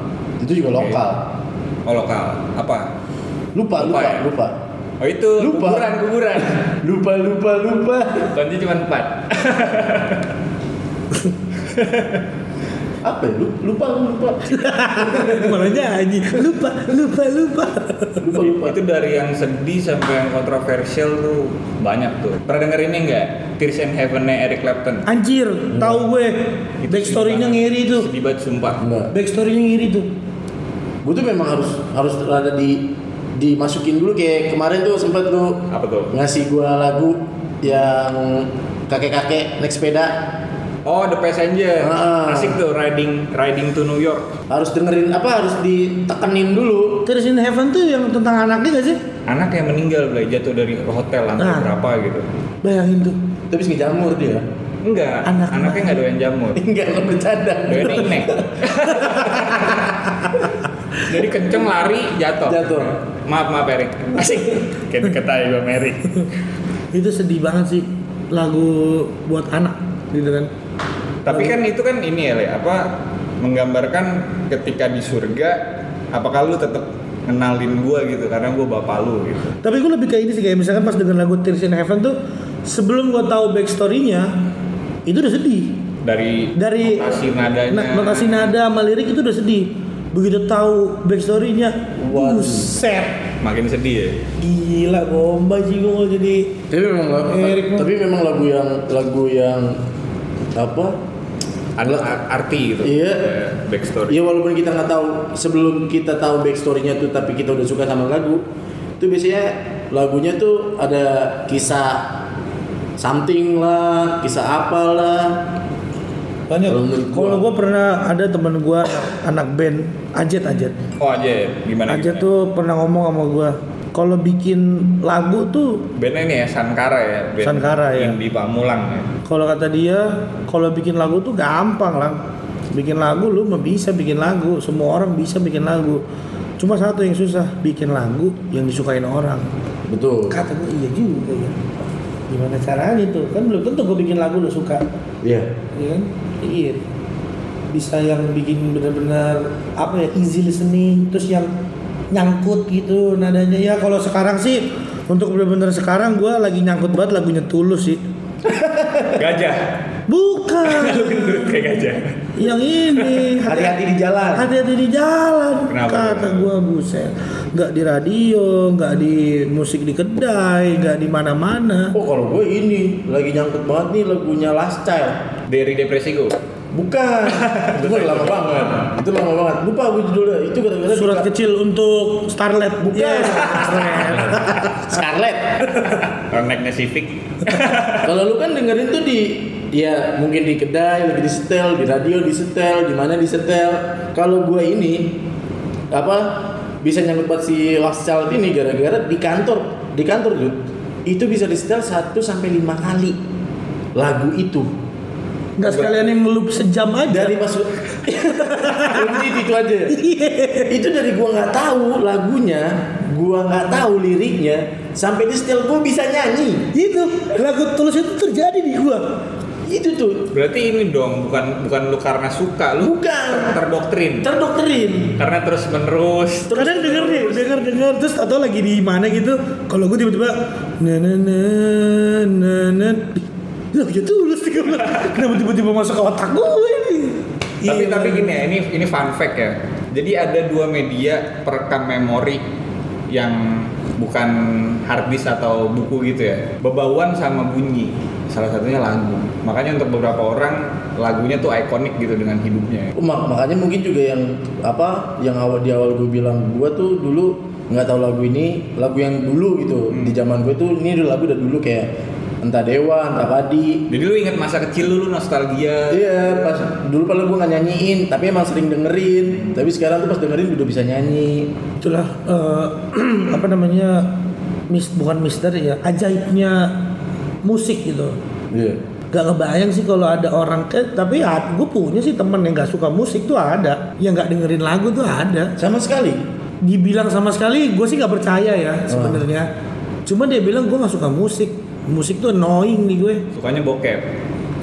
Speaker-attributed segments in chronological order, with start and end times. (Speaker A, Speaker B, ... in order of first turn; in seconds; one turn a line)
Speaker A: 0.4-1.2
Speaker B: 1.9-2.9
Speaker A: 3.5-4.5
Speaker B: 3.8-4.3
Speaker B: 5.0-6.6
Speaker A: 5.4-8.3
Speaker B: 8.3-10.2
Speaker B: 11.7-12.2
Speaker A: 13.0-15.6
Speaker C: 14.5-18.3
Speaker A: 18.2-18.8
Speaker B: 18.4-25.0
Speaker C: 25.1-28.1
Speaker B: 26.8-28.8
Speaker A: 28.8-29.1
Speaker C: 29.1-30.1
Speaker A: 31.0-40.2
Speaker B: 35.7-36.1
Speaker B: 40.8-44.3
Speaker A: 41.8-42.6
Speaker A: 44.5-47.1
Speaker C: 47.0-49.0
Speaker B: 49.3-52.2
Speaker C: 51.4-51.7
Speaker C: 52.6-53.2
Speaker A: 53.5-54.4
Speaker B: 54.8-56.6
Speaker C: 55.2-56.0
Speaker A: 56.5-59.9
Speaker B: 57.7-59.9
Speaker B: 61.0-66.1
Speaker A: 62.4-63.0
Speaker C: 66.9-70.5
Speaker B: 71.2-79.6
Speaker C: 79.6-84.3
Speaker C: 85.0-85.8
Speaker B: 86.0-88.5
Speaker C: 86.5-93.1
Speaker A: 92.0-92.7
Speaker B: 93.4-94.2
Speaker C: 94.4-96.6
Speaker A: 96.7-99.8
Speaker C: 97.2-97.9
Speaker A: 100.5-101.0
Speaker B: 101.8-104.2
Speaker A: 101.8-102.2
Speaker A: 102.8-103.3
Speaker A: 104.1-108.4
Speaker A: 109.0-112.1
Speaker A: 113.0-115.4
Speaker C: 116.5-120.8
Speaker A: 116.7-117.5
Speaker B: 121.0-122.3
Speaker C: 121.9-125.8
Speaker B: 126.0-129.1
Speaker C: 127.4-128.2
Speaker C: 129.2-132.2
Speaker C: 132.7-136.0
Speaker C: 136.6-139.5
Speaker A: 139.9-140.4
Speaker C: 140.3-144.8
Speaker A: 145.2-145.5
Speaker C: 145.7-146.8
Speaker C: 147.7-151.5
Speaker C: 152.1-158.0
Speaker A: 158.6-159.1
Speaker B: 159.1-159.6
Speaker C: 160.1-161.6
Speaker B: 160.6-162.3
Speaker C: 162.3-163.8
Speaker B: 162.9-163.2
Speaker A: 163.4-164.5
Speaker C: 164.3-171.9
Speaker B: 165.7-166.5
Speaker A: 171.9-175.3
Speaker B: 175.5-176.4
Speaker A: 176.7-181.3
Speaker B: 177.3-178.5
Speaker C: 180.9-184.9
Speaker A: 182.9-185.9
Speaker B: 186.1-188.1
Speaker A: 188.0-195.2
Speaker A: 195.9-203.2
Speaker A: 203.9-204.7
Speaker C: 205.6-207.3
Speaker A: 207.1-210.0
Speaker C: 208.1-209.3
Speaker C: 209.9-210.7
Speaker A: 210.7-216.7
Speaker C: 216.7-219.1
Speaker A: 219.7-220.3
Speaker B: 220.3-224.3
Speaker A: 222.8-223.6
Speaker A: 224.2-225.2
Speaker B: 225.2-226.6
Speaker A: 226.5-227.6
Speaker C: 226.5-238.3
Speaker B: 237.7-242.4
Speaker B: 243.1-252.9
Speaker A: 252.9-261.9
Speaker B: 259.9-260.2
Speaker A: 262.4-263.9
Speaker B: 263.9-266.6
Speaker A: 265.9-271.5
Speaker C: 271.8-274.1
Speaker C: 274.7-276.9
Speaker C: 277.4-278.2
Speaker A: 278.5-278.8
Speaker C: 279.1-285.5
Speaker A: 285.6-286.2
Speaker C: 286.6-289.5
Speaker A: 288.9-289.2
Speaker C: 290.1-293.2
Speaker B: 293.3-294.0